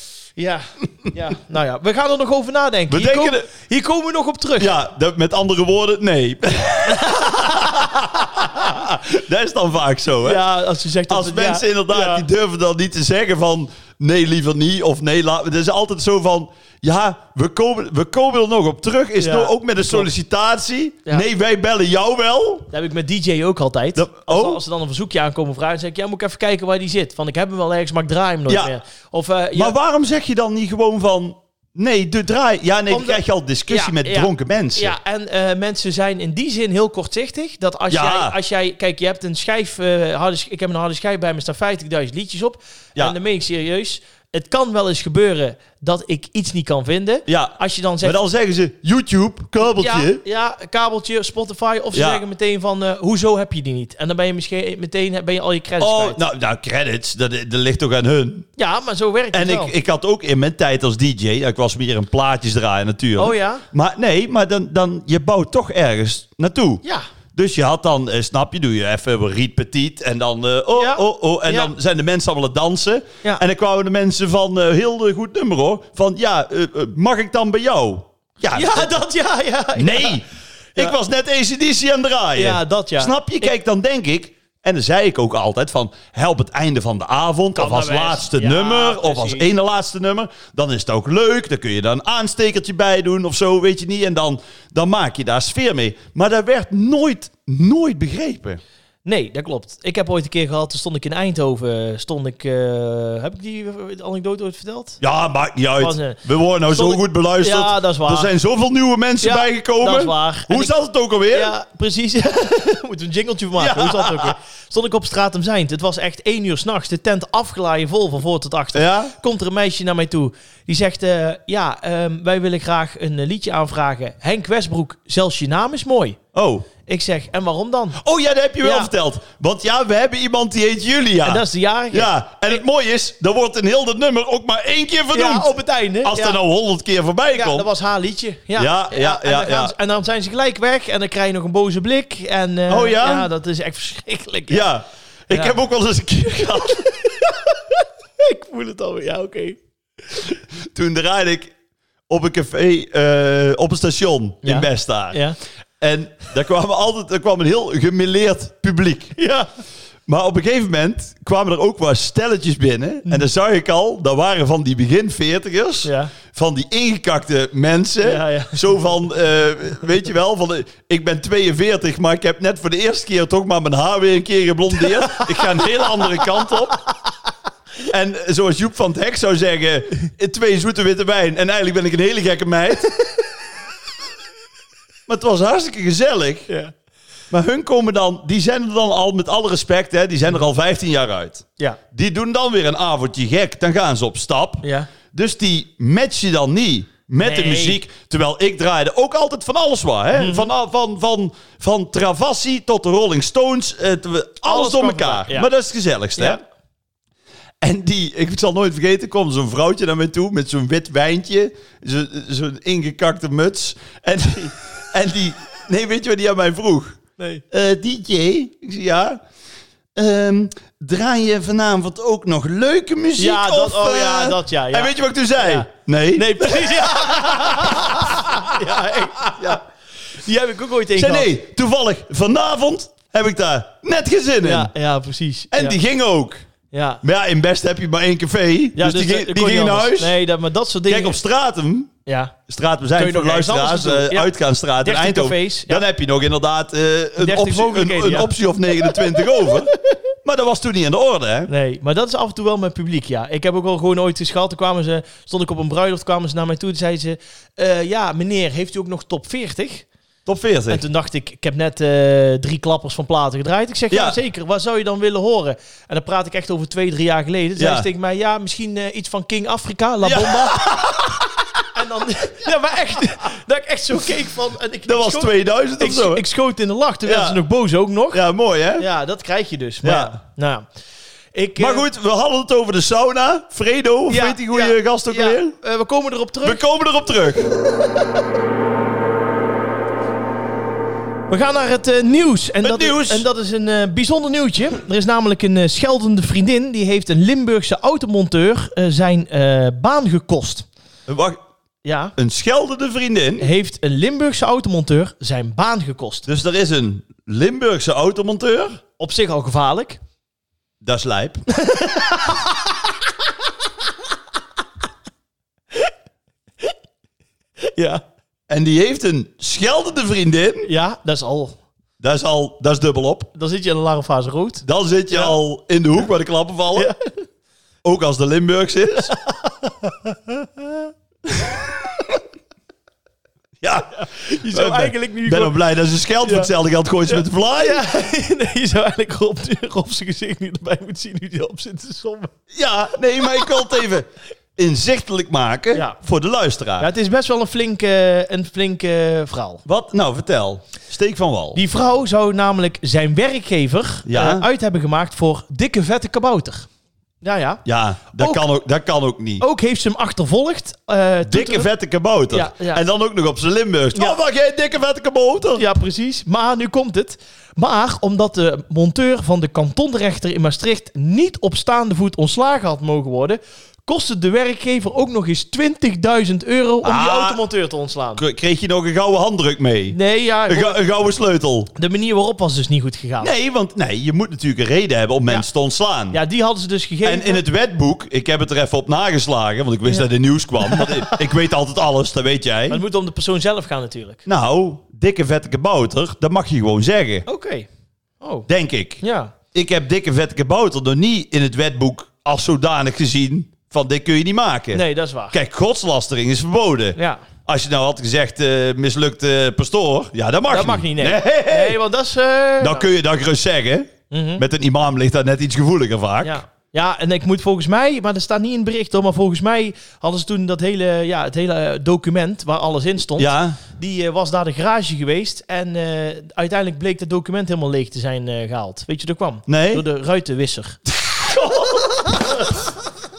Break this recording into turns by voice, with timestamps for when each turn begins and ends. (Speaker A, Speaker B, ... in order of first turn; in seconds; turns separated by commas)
Speaker A: 0.4-4.7, Speaker B: 2.9-3.5, Speaker B: 4.6-10.5, Speaker A: 6.9-7.9, Speaker A: 10.2-12.2, Speaker B: 11.1-22.7, Speaker A: 19.2-20.1, Speaker A: 22.7-29.8, Speaker B: 24.0-24.6, Speaker B: 28.5-28.7, Speaker B: 29.5-35.0, Speaker A: 32.9-48.2, Speaker B: 37.9-38.3, Speaker B: 47.3-50.2, Speaker A: 49.8-56.2, Speaker B: 51.9-52.2, Speaker B: 55.8-58.5, Speaker A: 58.6-59.7, Speaker B: 59.3-66.8, Speaker A: 63.2-63.6, Speaker B: 67.3-79.0, Speaker A: 70.7-71.7, Speaker A: 78.5-80.2, Speaker B: 79.8-98.6, Speaker A: 82.3-83.5, Speaker A: 87.5-89.5, Speaker A: 99.0-105.0, Speaker B: 105.0-111.5, Speaker A: 105.8-108.3, Speaker A: 109.2-110.8, Speaker A: 111.3-126.2, Speaker B: 113.6-114.3, Speaker B: 118.8-119.1, Speaker B: 126.3-126.7, Speaker A: 126.8-128.0, Speaker B: 128.0-137.7, Speaker A: 128.6-128.9, Speaker A: 131.2-132.1, Speaker A: 135.1-136.4, Speaker A: 137.3-144.7, Speaker B: 138.6-139.7, Speaker B: 142.7-143.3, Speaker B: 144.5-147.2, Speaker A: 145.3-145.6, Speaker A: 147.1-147.3, Speaker A: 148.2-149.6, Speaker B: 150.3-151.5, Speaker B: 152.1-155.2, Speaker A: 154.4-155.4, Speaker B: 155.8-159.2, Speaker A: 159.2-159.5, Speaker B: 160.1-176.8, Speaker A: 165.8-166.1, Speaker A: 168.0-168.9, Speaker A: 175.0-175.3, Speaker B: 177.8-183.1, Speaker B: 185.1-186.5, Speaker B: 187.3-206.4, Speaker A: 194.6-194.9, Speaker A: 197.2-197.8, Speaker A: 200.2-200.5, Speaker A: 204.5-205.5, Speaker A: 206.2-206.4, Speaker B: 207.6-217.0, Speaker B: 217.5-219.2, Speaker B: 219.9-229.6, Speaker A: 223.2-231.3, Speaker B: 230.9-234.7, Speaker A: 234.4-235.8, Speaker B: 235.5-236.5, Speaker A: 236.7-237.0, Speaker B: 237.0-240.2, Speaker A: 238.8-241.2, Speaker B: 240.9-241.9, Speaker A: 242.1-242.3, Speaker B: 242.5-249.7, Speaker A: 243.0-245.8, Speaker A: 247.2-249.5, Speaker B: 250.2-251.5, Speaker A: 251.5-259.9, Speaker B: 260.2-260.8, Speaker A: 260.7-271.1, Speaker B: 263.9-264.2, Speaker B: 267.6-267.9, Speaker B: 270.0-271.3, Speaker A: 271.7-278.2, Speaker B: 274.9-276.2, Speaker B: 277.0-277.4, Speaker B: 278.1-278.9, Speaker A: 278.8-280.6, Speaker B: 279.8-280.2, Speaker A: 281.3-281.9, Speaker B: 281.6-285.5, Speaker A: 284.1-286.6, Speaker B: 286.4-287.5, Speaker A: 291.3-300.7, Speaker B: 292.6-293.2, Speaker B: 301.1-301.4, Speaker A: 301.8-302.1, Speaker B: 302.2-303.5, Speaker A: 303.4-306.3, Speaker B: 306.3-308.8, Speaker A: 309.0-310.0, Speaker B: 310.8-311.4, Speaker A: 311.5-312.9, Speaker A: 317.6-318.0, Speaker B: 318.5-320.7, Speaker A: 320.6-321.6, Speaker B: 322.0-323.3, Speaker A: 323.4-325.4, Speaker B: 324.6-326.9, Speaker A: 326.8-327.1, Speaker B: 327.8-329.1, Speaker A: 329.1-331.7, Speaker B: 333.6-337.9, Speaker A: 333.9-335.6, Speaker A: 336.2-336.5, Speaker A: 337.1-342.3, Speaker B: 342.5-346.9, Speaker A: 343.2-343.7, Speaker A: 345.7-346.0, Speaker A: 346.8-349.6, Speaker B: 349.6-351.6, Speaker A: 351.5-356.7, Speaker B: 354.1-354.5, Speaker A: 357.2-357.6, Speaker B: 357.6-359.4, Speaker A: 358.2-358.4, Speaker A: 359.4-361.7, Speaker B: 361.3-365.7, Speaker A: 362.3-362.8, Speaker A: 363.9-364.2, Speaker A: 365.6-378.2, Speaker B: 376.8-377.4, Speaker B: 378.2-380.0, Speaker A: 379.9-380.8, Speaker B: 380.5-381.7, Speaker A: 381.8-383.3, Speaker B: 383.2-386.2, Speaker A: 386.1-387.4, Speaker B: 387.0-392.8, Speaker A: 390.6-391.2, Speaker A: 392.7-394.2, Speaker B: 394.2-397.2, Speaker A: 397.2-397.7, Speaker A: 398.2-398.5, Speaker B: 398.5-399.0, Speaker A: 399.0-399.3, Speaker B: 399.5-411.8, Speaker A: 404.7-405.4, Speaker A: 406.9-407.2, Speaker A: 410.5-412.9, Speaker B: 412.6-416.4, Speaker A: 414.1-414.4, Speaker A: 416.2-430.8, Speaker B: 423.2-423.6, Speaker B: 429.5-429.9, Speaker B: 431.1-432.1, Speaker A: 432.2-432.4